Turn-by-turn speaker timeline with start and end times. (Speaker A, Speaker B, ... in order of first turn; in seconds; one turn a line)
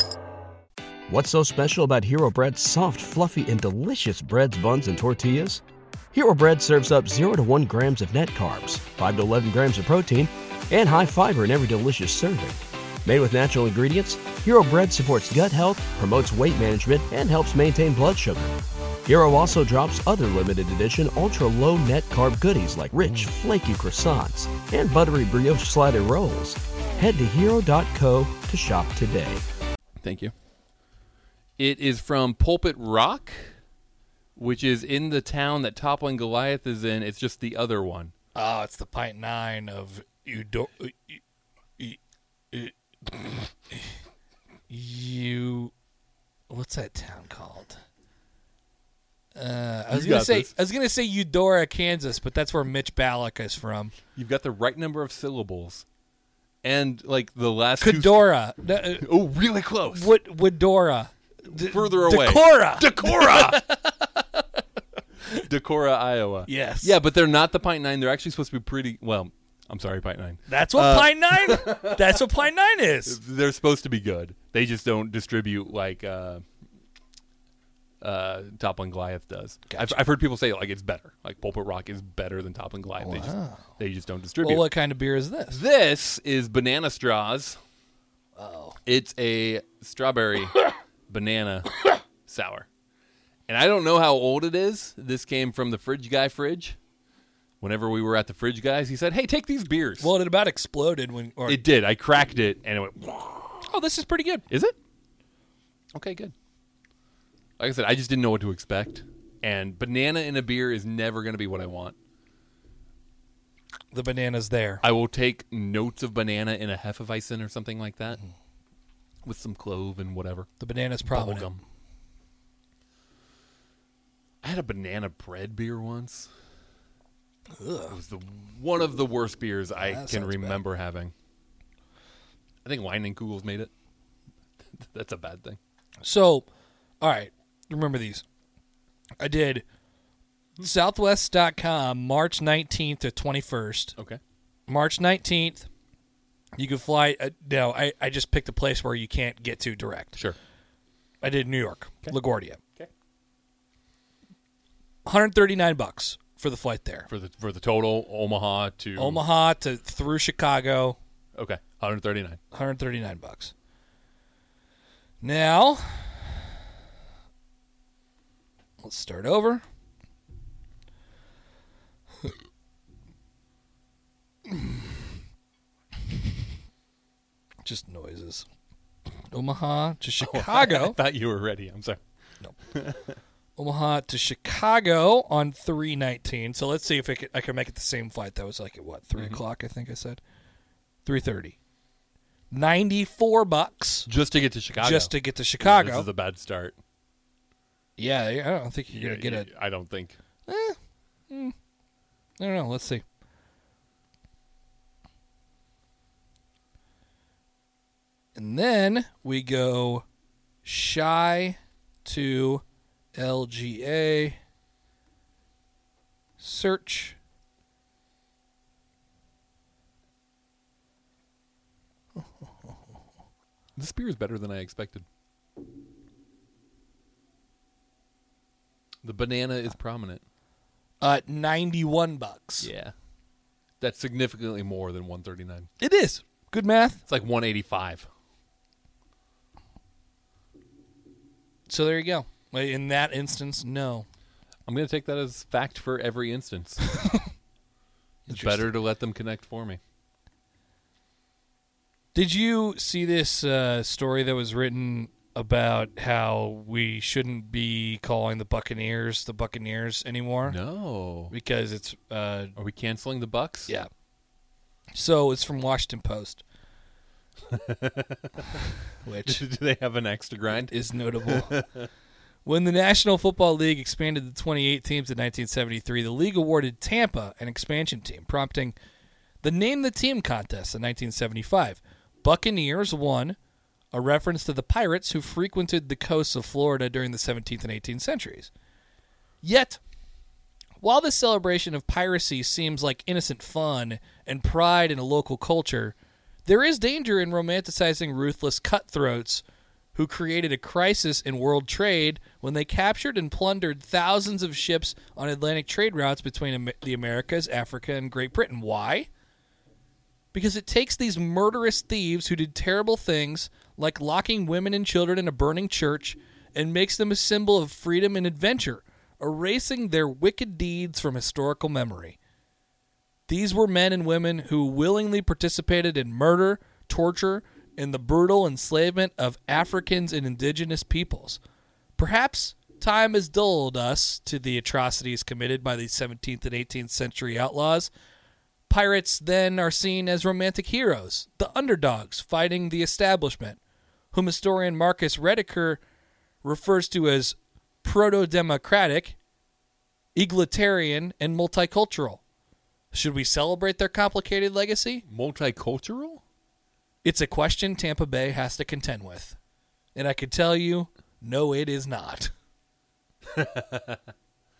Speaker A: 1.1-5.6
Speaker A: 6.1-29.4
Speaker B: 30.0-30.3
Speaker B: 31.6-33.5
Speaker B: 34.4-38.1
Speaker C: 38.3-41.2
Speaker C: 42.5-43.9
Speaker C: 44.7-45.7
Speaker C: 46.5-47.8
Speaker C: 49.4-53.9
Speaker B: 49.9-50.5
Speaker B: 54.1-55.8
Speaker B: 56.6-58.2
Speaker C: 57.8-59.1
Speaker B: 59.0-60.1
Speaker C: 59.9-63.8
Speaker B: 61.5-64.2
Speaker B: 65.3-72.3
Speaker C: 66.5-67.0
Speaker C: 70.5-73.2
Speaker B: 73.0-76.4
Speaker B: 78.0-84.7
Speaker C: 79.7-80.0
Speaker C: 83.0-83.6
Speaker C: 84.4-85.6
Speaker B: 85.5-87.6
Speaker C: 88.3-88.8
Speaker B: 88.8-91.7
Speaker B: 92.2-92.7
Speaker B: 93.5-96.8
Speaker B: 97.6-100.1
Speaker C: 100.0-101.6
Speaker B: 101.5-103.6
Speaker C: 103.6-104.4
Speaker B: 104.5-104.8
Speaker B: 105.9-106.3
Speaker B: 107.6-112.0
Speaker C: 113.9-114.8
Speaker B: 114.8-118.2
Speaker B: 119.2-120.5
Speaker C: 120.6-121.5
Speaker B: 121.1-121.6
Speaker B: 124.4-126.3
Speaker C: 127.5-128.0
Speaker B: 127.9-131.1
Speaker C: 129.8-130.6
Speaker B: 132.6-133.7
Speaker B: 134.7-135.6
Speaker C: 136.0-136.4
Speaker C: 137.0-138.2
Speaker C: 139.2-139.6
Speaker C: 140.6-143.9
Speaker C: 144.7-145.7
Speaker C: 146.6-150.2
Speaker C: 151.2-152.6
Speaker C: 155.1-157.1
Speaker B: 157.1-159.2
Speaker C: 158.9-161.0
Speaker B: 161.3-162.4
Speaker C: 162.5-163.5
Speaker C: 165.2-166.4
Speaker C: 168.8-169.6
Speaker C: 174.5-174.7
Speaker C: 177.6-178.4
Speaker C: 179.3-181.0
Speaker B: 180.2-182.0
Speaker B: 182.7-183.2
Speaker C: 183.6-190.2
Speaker B: 189.1-189.4
Speaker C: 191.0-191.6
Speaker C: 192.5-194.1
Speaker B: 194.1-196.8
Speaker C: 194.8-196.1
Speaker C: 198.0-199.5
Speaker B: 198.9-200.2
Speaker C: 200.5-200.8
Speaker C: 201.3-201.5
Speaker C: 202.4-203.0
Speaker C: 208.3-210.0
Speaker C: 210.6-212.6
Speaker C: 213.1-214.4
Speaker C: 216.4-217.2
Speaker B: 223.8-225.1
Speaker B: 229.0-230.2
Speaker C: 231.0-232.7
Speaker B: 232.6-232.9
Speaker B: 233.8-235.7
Speaker C: 235.8-237.0
Speaker B: 237.1-238.1
Speaker C: 241.7-244.1
Speaker B: 244.7-246.8
Speaker C: 248.3-248.8
Speaker B: 248.3-249.8
Speaker C: 252.1-260.6
Speaker B: 260.4-261.3
Speaker C: 261.3-262.5
Speaker B: 262.6-263.7
Speaker C: 264.9-266.4
Speaker B: 267.5-268.5
Speaker C: 269.0-269.4
Speaker B: 269.2-271.9
Speaker C: 270.7-271.6
Speaker C: 272.4-278.7
Speaker C: 279.4-283.4
Speaker C: 283.9-288.5
Speaker C: 289.4-289.8
Speaker C: 290.8-299.4
Speaker C: 299.9-309.1
Speaker C: 310.3-322.2
Speaker C: 323.3-331.4
Speaker C: 332.0-337.9
Speaker C: 338.7-343.6
Speaker C: 344.1-345.8
Speaker C: 346.4-349.1
Speaker C: 350.1-352.2
Speaker C: 352.9-355.0
Speaker B: 355.1-356.2
Speaker C: 357.0-359.4
Speaker C: 359.9-362.3
Speaker B: 363.2-364.1